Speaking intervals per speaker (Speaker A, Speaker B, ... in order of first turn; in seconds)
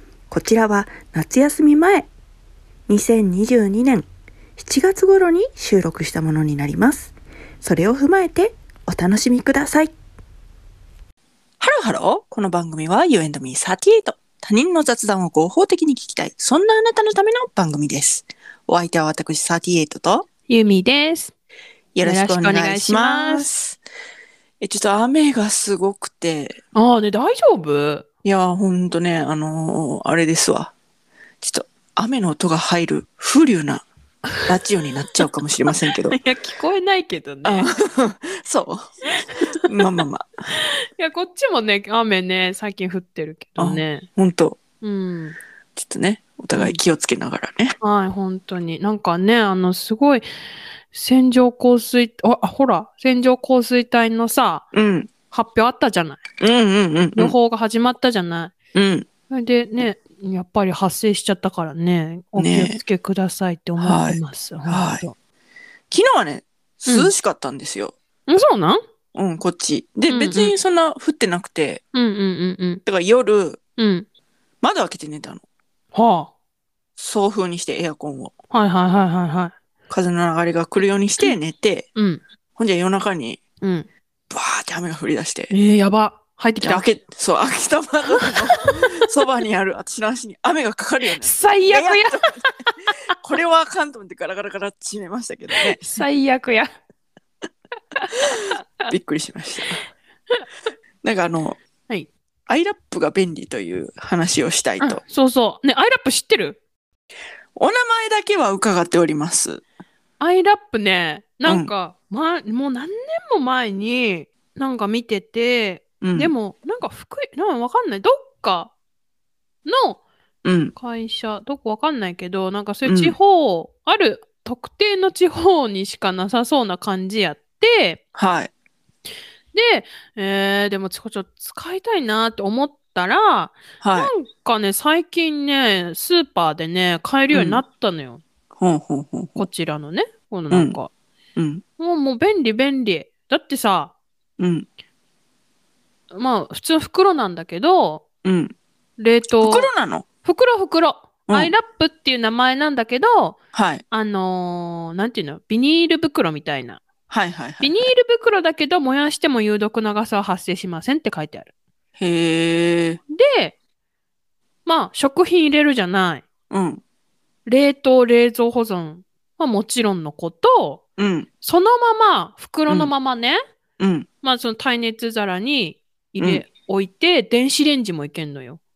Speaker A: 0.3-2.1, 2.9-9.9, 11.6-20.3, 21.9-23.8, 24.6-26.6, 28.2-30.7, 31.4-33.9, 34.5-36.2, 37.5-38.9, 39.7-40.3, 43.6-44.6, 45.8-47.8, 54.7-55.1, 56.4-57.4, 58.8-59.1, 62.4-62.8, 63.8-65.0, 65.9-67.9, 69.2-71.8, 72.9-73.6, 74.6-75.4, 77.0-78.3, 79.9-81.9, 82.6-83.4, 84.3-85.5, 86.6-92.2, 93.2-95.8, 98.8-99.8, 101.0-101.6, 102.5-105.0, 107.5-109.6, 111.5-111.7, 116.0-116.3, 120.4-120.7, 122.8-123.2, 128.2-128.5, 133.8-134.1, 137.3-137.6, 138.6-139.5, 140.5-140.8, 141.4-141.6, 144.4-144.7, 148.2-148.6, 149.4-150.1, 151.3-151.6, 153.5-153.8, 157.1-157.9, 162.0-163.0, 166.5-166.8, 171.0-171.3, 173.8-174.1, 176.2-176.4
Speaker B: 20.5-21.3, 22.0-23.5, 26.8-28.1, 36.1-37.7, 41.0-44.1, 44.8-45.4, 46.5-46.8, 47.8-50.3, 50.9-54.6, 55.3-56.2, 57.2-58.5, 59.3-65.1, 66.9-67.1, 68.3-68.8, 70.1-70.5, 71.9-72.8, 73.8-74.1, 75.9-76.3, 78.5-79.5, 82.0-82.2, 83.6-83.9, 85.5-86.8, 88.2-88.9, 91.2-92.9, 95.7-96.7, 98.0-98.9, 104.8-106.6, 110.2-118.7, 119.7-120.0, 120.8-128.0, 129.5-138.2, 139.4-140.9, 141.8-143.9, 146.1-148.0, 149.0-149.7, 150.2-153.4, 153.9-156.8, 157.6-161.5, 163.1-163.6, 164.7-166.3, 167.4-170.8, 171.4-173.4, 174.2-178.6